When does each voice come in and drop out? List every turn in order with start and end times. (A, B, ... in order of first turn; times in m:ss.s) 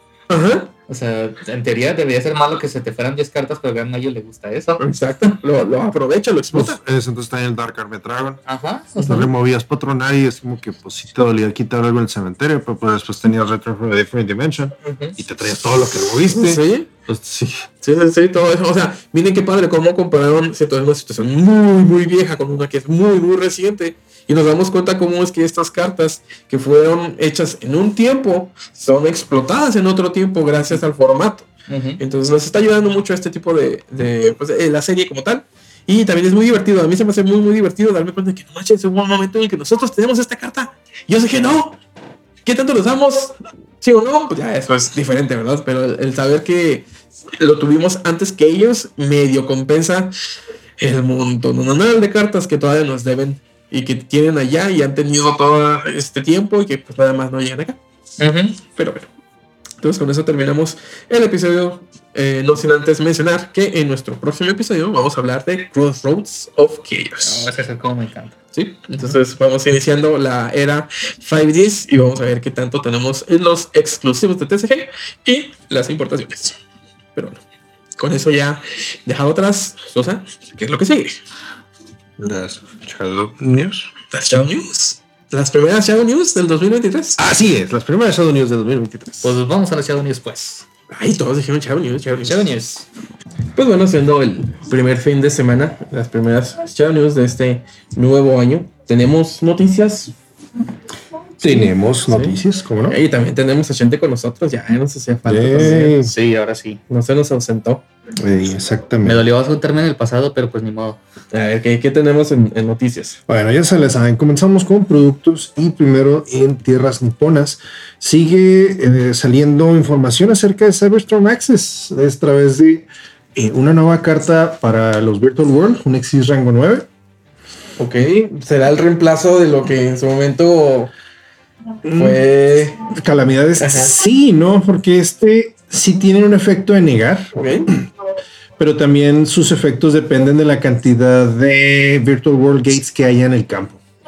0:00.3-0:00.7 A
0:00.9-0:04.8 B
0:04.8-0:06.8 A
0:06.5-0:08.4 C
0:08.5-0:09.2 B
0:09.0-0:17.7 C
0:09.0-0:09.3 A
0:14.8-0:15.2 B
0:16.3-0:16.9 A
0:17.8-0:31.5 A
0:31.7-0:32.0 B
0:32.0-0:41.8 A
0:42.4-0:46.8 A
0:47.4-0:50.1 A
0:50.8-0:57.8 A
0:58.2-0:58.6 B
0:58.8-0:59.1 A
0:59.8-1:07.5 A
1:07.2-1:08.4 B
1:08.5-1:16.6 A
1:18.0-1:21.2 A
1:22.2-1:23.9 C
1:24.1-1:27.2 A
1:27.2-1:29.4 C
1:29.2-1:30.7 B
1:30.9-1:32.5 A
1:32.3-1:32.9 B
1:33.6-1:40.1 A
1:41.4-1:43.0 C
1:42.1-1:46.0 A
1:45.3-1:46.1 C
1:45.6-1:46.8 B
1:46.9-1:47.8 A
1:48.2-1:49.2 C
1:49.0-1:51.0 B
1:51.3-1:53.2 A
1:53.3-2:06.9 C
2:07.8-2:10.9 A
2:11.8-2:12.2 C
2:12.0-2:12.8 A
2:12.9-2:17.8 C
2:13.6-2:13.9 A
2:17.4-2:17.7 A
2:18.6-2:23.8 C